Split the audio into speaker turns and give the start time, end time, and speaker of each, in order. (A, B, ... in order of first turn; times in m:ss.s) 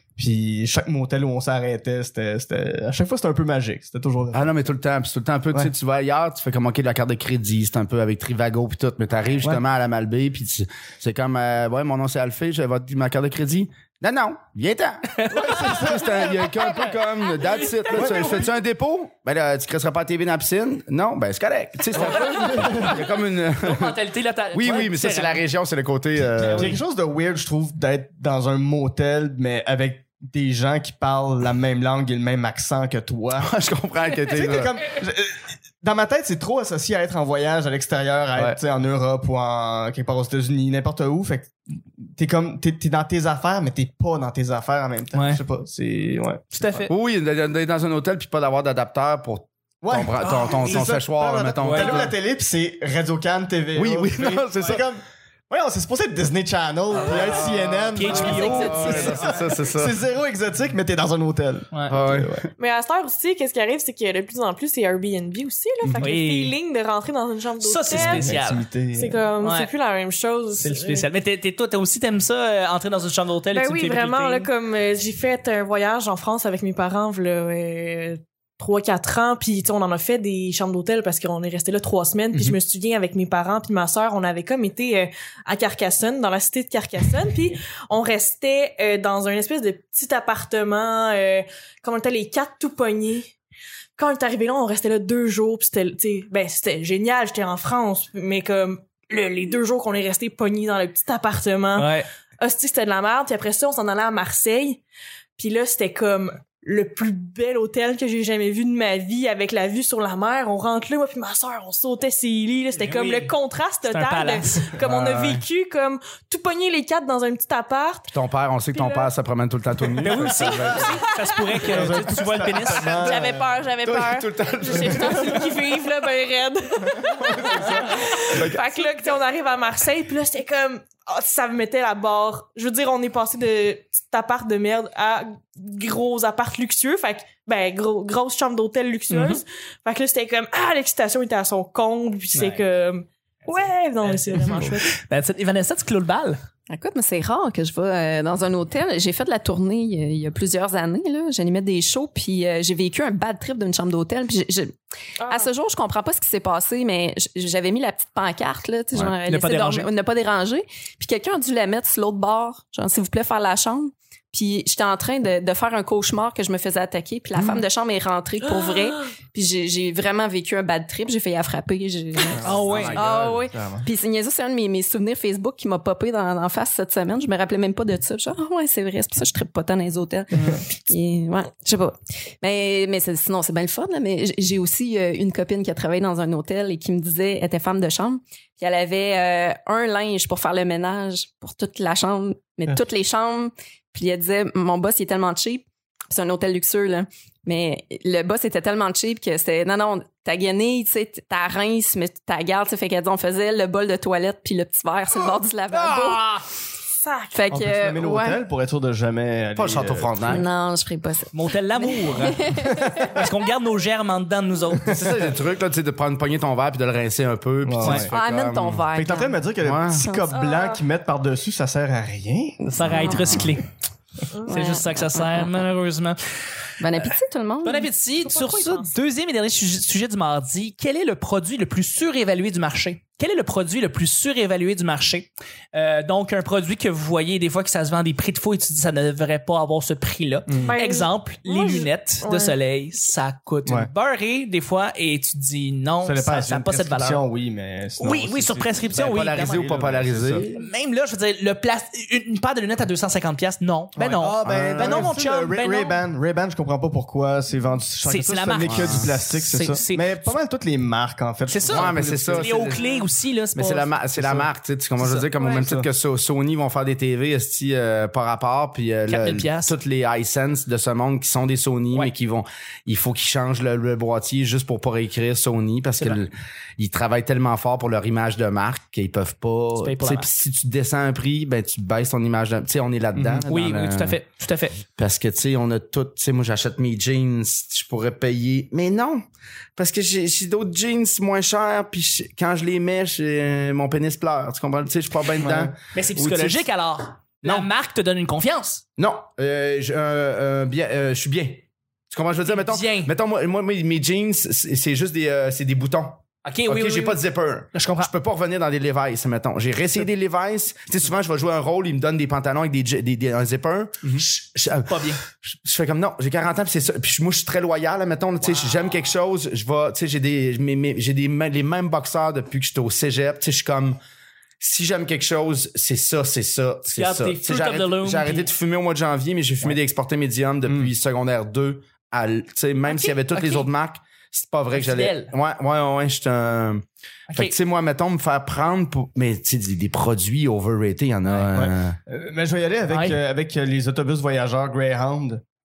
0:00.2-0:04.6 A
0:04.3-0:23.9 B
0:15.2-0:15.9 C
0:15.3-0:17.0 A
0:17.4-0:18.4 C
0:17.9-0:18.4 A
0:21.9-0:23.0 C
0:21.9-0:23.0 A
0:23.6-0:25.4 C
0:24.5-0:26.7 B
0:26.3-0:33.5 A
0:26.4-0:26.8 C
0:33.3-0:34.8 B
0:34.2-0:46.9 A
0:45.1-0:45.4 C
0:46.5-0:46.9 C
0:46.9-0:52.1 B
0:49.8-1:02.5 A
0:50.2-0:50.9 C
0:51.6-0:52.1 C
0:53.7-0:54.8 B
0:57.0-1:00.0 B
0:57.9-0:59.2 C
0:58.1-0:59.1 D
1:01.9-1:02.4 B
1:02.6-1:08.3 D
1:06.0-1:06.5 C
1:07.6-1:08.6 C
1:07.9-1:09.2 A
1:08.9-1:11.1 D
1:09.4-1:09.7 C
1:10.6-1:14.5 C
1:13.5-1:33.3 D
1:34.0-1:44.8 D
1:41.8-1:42.1 C
1:45.4-1:58.1 D
1:52.8-1:53.3 C
1:53.8-1:54.5 C
1:54.8-1:55.4 B
1:58.1-2:00.9 B
1:58.7-1:59.1 D
2:00.0-2:02.1 D
2:00.0-2:03.1 C
2:01.7-2:03.2 A
2:02.6-2:25.0 D
2:03.8-2:05.6 B
2:07.2-2:07.6 A
2:08.3-2:08.7 B
2:19.1-2:19.4 C
2:22.3-2:22.6 C
2:24.0-2:26.4 C
2:26.7-2:34.7 E
2:35.2-2:35.5 D
2:35.3-3:26.3 E
2:39.2-2:39.9 C
2:48.6-2:48.8 D
2:52.3-2:53.9 A
2:52.4-2:53.0 C
3:25.7-3:26.4 C
3:27.0-3:27.4 D
3:27.3-3:28.4 E
3:27.5-3:30.4 A
3:29.6-3:30.4 B
3:30.2-3:33.2 E
3:31.3-3:35.0 C
3:34.7-3:35.3 A
3:34.8-3:38.8 B
3:37.6-3:38.1 A
3:37.8-3:38.1 C
3:38.1-3:40.3 E
3:38.9-3:42.6 A
3:39.6-3:40.0 B
3:40.3-3:40.8 D
3:42.7-3:43.7 C
3:42.7-3:43.4 E
3:42.8-3:43.5 B
3:44.5-3:45.5 E
3:44.5-3:46.2 C
3:46.8-3:47.9 E
3:47.6-4:07.2 C
3:48.2-3:49.0 D
4:00.7-4:02.6 D
4:06.0-4:10.5 A
4:08.0-4:10.0 C
4:09.0-4:10.6 B
4:10.5-4:16.0 C
4:14.0-4:22.8 A
4:14.4-4:15.1 B
4:18.0-4:20.3 C
4:18.6-4:19.1 B
4:21.5-4:24.0 C
4:21.7-4:22.8 B
4:23.6-4:44.2 B
4:24.2-4:24.5 A
4:25.0-4:25.3 C
4:25.4-4:25.9 A
4:29.1-4:29.7 C
4:36.0-4:36.2 C
4:39.8-4:40.3 C
4:43.1-4:43.4 A
4:43.4-4:44.8 C
4:44.9-4:49.2 B
4:49.8-4:56.7 B
4:55.4-4:55.7 A
4:55.9-4:58.8 C
4:57.4-4:57.7 B
4:59.0-5:24.0 B
5:02.4-5:03.1 C
5:06.4-5:08.1 C
5:14.8-5:15.2 C
5:18.4-5:19.0 C
5:24.6-5:36.8 B
5:26.9-5:28.5 C
5:32.8-5:33.7 C
5:34.7-5:35.3 C
5:37.3-5:37.6 C
5:37.3-5:42.0 B
5:41.5-5:45.4 A
5:42.9-5:43.2 C